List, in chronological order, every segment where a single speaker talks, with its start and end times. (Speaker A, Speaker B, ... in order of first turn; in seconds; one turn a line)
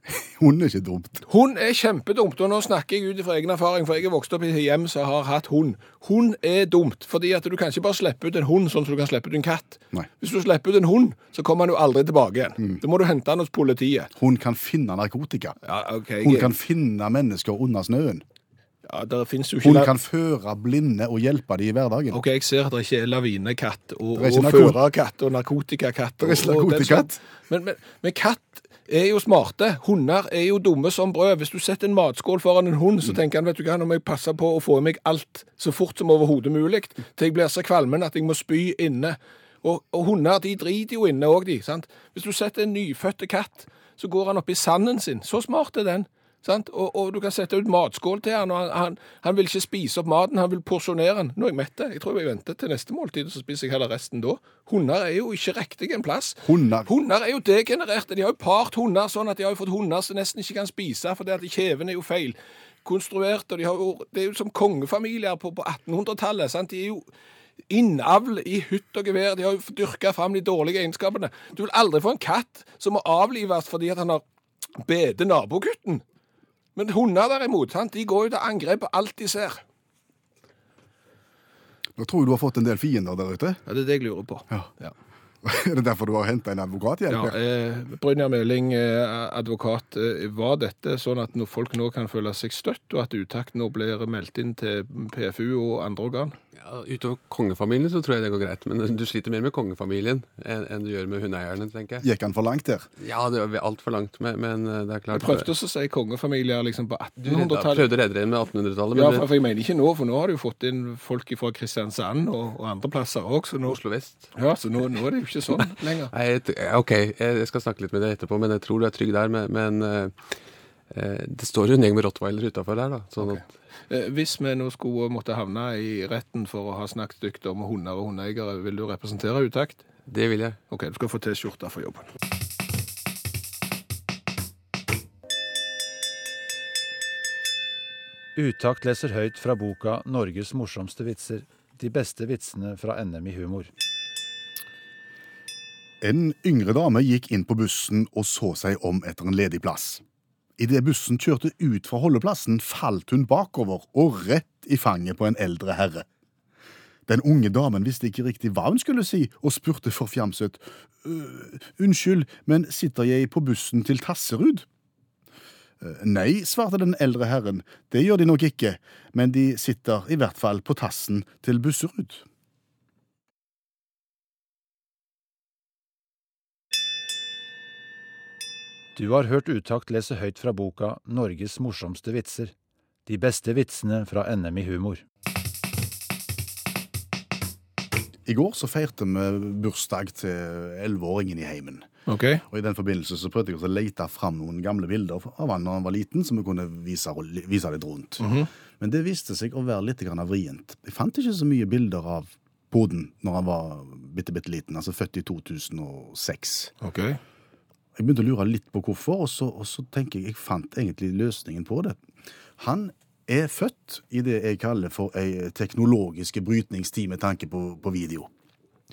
Speaker A: 0.1-1.2
Speaker B: 1.2-14.1
Speaker A: 14.1-15.6
Speaker B: 15.6-16.5
Speaker A: 16.2-18.2
Speaker B: 18.8-19.9
Speaker A: 19.6-22.2
Speaker B: 22.1-67.1
Speaker A: 24.1-24.8
Speaker A: 26.2-27.2
Speaker A: 56.4-56.9
Speaker B: 67.7-74.2
Speaker B: 74.8-76.0
Speaker B: 76.8-79.6
Speaker A: 82.0-83.6
Speaker B: 83.7-84.9
Speaker A: 85.4-87.3
Speaker B: 87.1-96.3
Speaker C: 96.5-102.0
Speaker A: 102.0-102.9
Speaker C: 103.0-105.5
Speaker B: 105.1-107.9
Speaker C: 107.2-109.3
Speaker B: 108.9-113.8
Speaker C: 113.7-114.3
Speaker B: 114.3-116.1
Speaker C: 116.1-120.1
Speaker C: 120.9-123.4
Speaker B: 123.2-129.8
Speaker C: 130.1-130.6
Speaker B: 130.7-132.0
Speaker D: 138.3-143.7
Speaker A: 146.0-150.0
Speaker A: 150.6-156.1
Speaker A: 157.1-164.7
Speaker A: 165.8-172.2
Speaker D: 178.9-182.5
Speaker D: 183.1-185.0
Speaker A: 188.2-191.9
Speaker B: 192.1-192.4
Speaker A: 192.5-198.3
Speaker B: 198.2-198.5
Speaker A: 198.8-206.7
Speaker B: 206.8-207.2
Speaker A: 207.9-212.0
Speaker A: 212.6-218.3